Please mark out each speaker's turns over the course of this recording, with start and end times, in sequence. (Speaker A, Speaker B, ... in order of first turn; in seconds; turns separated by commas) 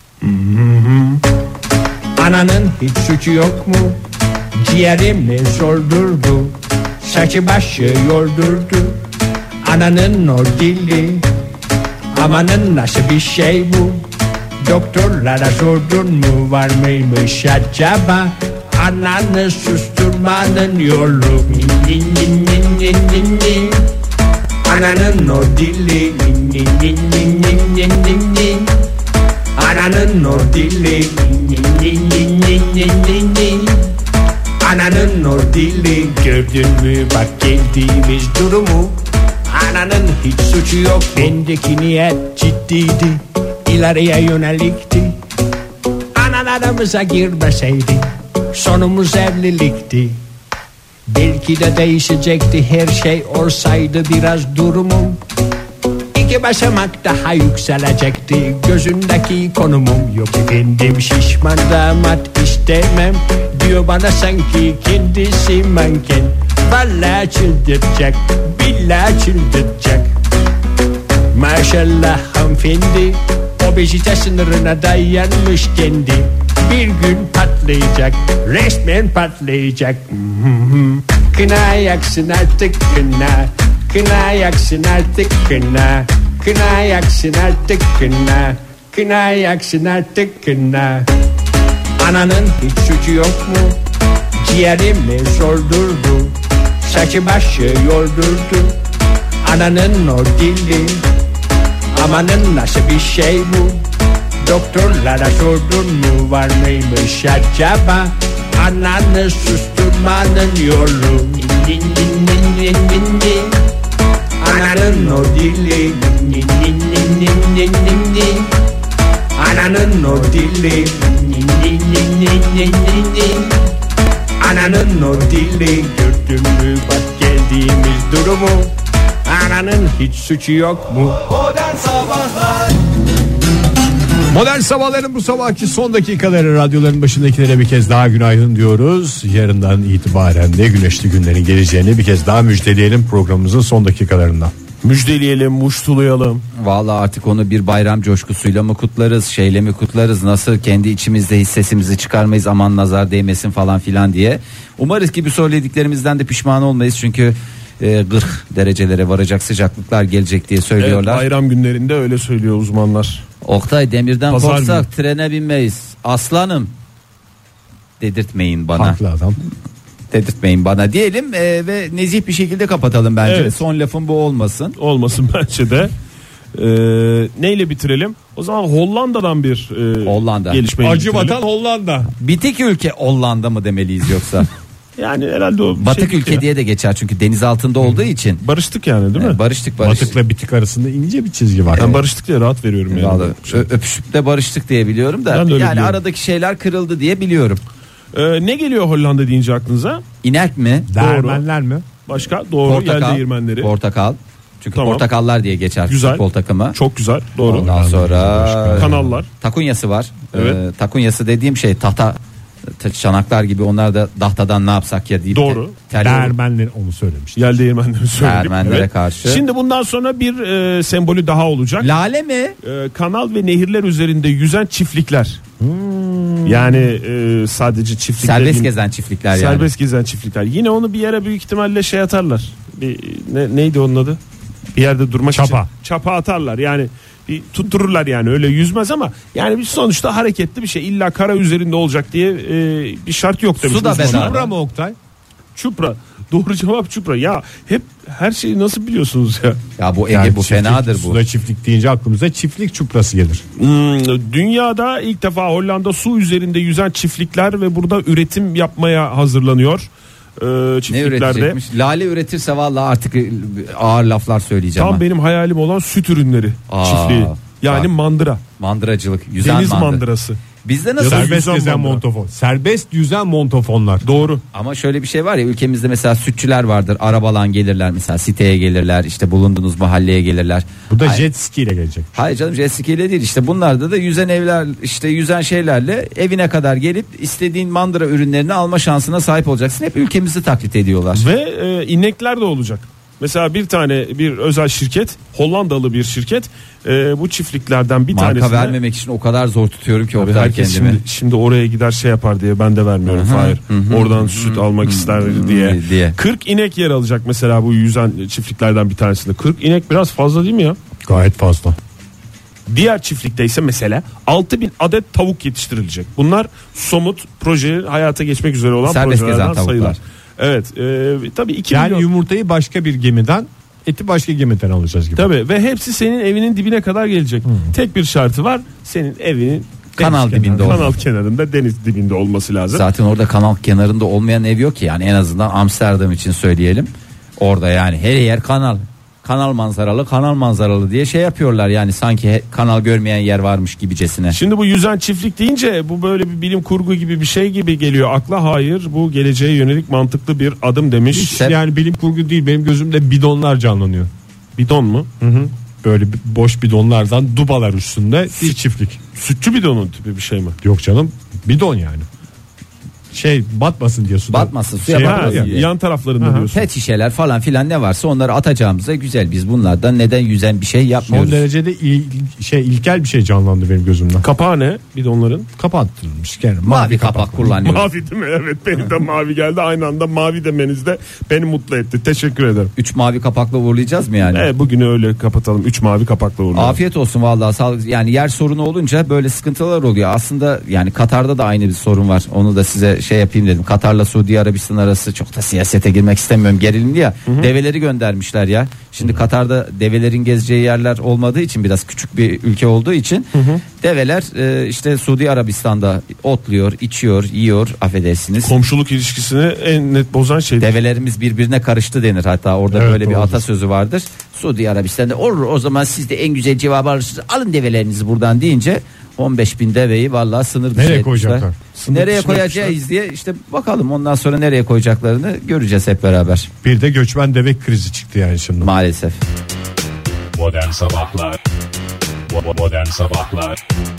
Speaker A: 0.3-1.1, Speaker A: 2.2-4.0, Speaker A: 4.6-9.0, Speaker A: 9.6-11.3, Speaker A: 12.1-14.0, Speaker A: 14.6-23.9, Speaker A: 24.6-28.8, Speaker A: 29.6-33.9, Speaker A: 34.6-45.2, Speaker A: 46.1-50.2, Speaker A: 51.1-55.2, Speaker A: 56.1-70.1, Speaker A: 71.3-91.1, Speaker A: 92.0-93.8, Speaker A: 94.4-98.8, Speaker A: 99.4-101.0, Speaker A: 101.9-103.8, Speaker A: 104.4-113.6, Speaker A: 114.4-118.5, Speaker A: 119.4-123.6, Speaker A: 124.4-132.4, Speaker B: 134.3-144.5, Speaker C: 144.8-146.4, Speaker D: 146.5-161.2, Speaker C: 160.8-163.2, Speaker D: 163.4-166.7, Speaker C: 164.3-164.8, Speaker D: 168.0-169.0, Speaker B: 168.7-169.4, Speaker D: 170.1-174.8, Speaker C: 173.2-173.6, Speaker C: 174.8-175.9, Speaker C: 176.5-181.4, Speaker D: 180.0-180.6, Speaker B: 180.8-182.1, Speaker D: 182.2-184.5, Speaker C: 185.0-186.4, Speaker D: 185.8-188.4, Speaker C: 188.4-189.4, Speaker D: 189.1-190.1, Speaker B: 189.8-192.0, Speaker C: 191.7-193.7, Speaker D: 191.7-192.0, Speaker D: 192.9-197.6, Speaker C: 195.3-196.0, Speaker C: 198.1-200.0, Speaker D: 200.2-200.9, Speaker B: 200.9-201.9, Speaker C: 201.0-201.4, Speaker C: 202.1-203.7, Speaker D: 202.6-206.8, Speaker C: 204.7-205.1, Speaker C: 205.8-207.7, Speaker B: 207.4-209.2, Speaker D: 207.4-212.2, Speaker C: 208.8-209.3, Speaker C: 210.3-210.6, Speaker D: 212.8-216.3, Speaker C: 215.3-215.7, Speaker B: 215.9-217.5, Speaker C: 217.3-221.9, Speaker D: 218.2-219.4, Speaker D: 221.8-222.6, Speaker C: 222.6-225.4, Speaker B: 225.6-226.8, Speaker C: 226.4-228.7, Speaker D: 228.2-229.7, Speaker C: 229.3-234.2, Speaker C: 234.7-244.5, Speaker B: 235.3-235.7, Speaker D: 243.6-244.4, Speaker B: 243.9-244.9, Speaker C: 245.5-249.6, Speaker D: 249.8-251.2, Speaker B: 250.1-253.4, Speaker C: 253.6-259.9, Speaker C: 260.4-261.6, Speaker D: 260.9-265.0, Speaker C: 264.8-268.4, Speaker D: 266.7-267.9, Speaker D: 268.6-270.0, Speaker C: 269.4-270.4, Speaker D: 270.6-271.4, Speaker C: 271.0-272.0, Speaker B: 271.0-274.1, Speaker C: 274.0-274.4, Speaker D: 274.5-281.2, Speaker B: 280.9-282.2, Speaker D: 282.1-291.3, Speaker C: 291.1-298.8, Speaker D: 298.1-301.0, Speaker C: 300.1-310.8, Speaker D: 303.1-306.1, Speaker B: 311.0-311.8, Speaker C: 312.7-322.1, Speaker D: 318.9-320.0, Speaker B: 321.7-325.3, Speaker C: 325.1-332.8, Speaker B: 330.0-330.9, Speaker D: 330.0-330.9, Speaker D: 332.7-344.4, Speaker C: 344.3-351.4, Speaker B: 351.1-354.1, Speaker D: 351.3-351.5, Speaker C: 354.6-355.1, Speaker B: 355.2-359.0, Speaker C: 359.1-360.6, Speaker B: 360.6-362.1, Speaker B: 363.1-365.5, Speaker D: 364.3-365.7, Speaker C: 364.9-366.7, Speaker B: 366.2-366.5, Speaker D: 366.5-371.4, Speaker B: 371.1-374.2, Speaker C: 374.2-375.5, Speaker B: 375.6-377.5, Speaker D: 376.6-377.9, Speaker C: 377.5-382.7, Speaker D: 382.8-384.5, Speaker C: 384.3-386.8, Speaker D: 386.5-408.5, Speaker C: 403.3-403.6, Speaker C: 408.4-410.7, Speaker D: 410.6-426.5, Speaker B: 412.7-413.4, Speaker B: 420.7-421.5, Speaker C: 421.7-422.8, Speaker B: 426.6-428.7, Speaker D: 428.6-429.2, Speaker E: 430.4-431.3, Speaker D: 430.8-431.1, Speaker E: 432.4-433.6, Speaker D: 432.5-433.2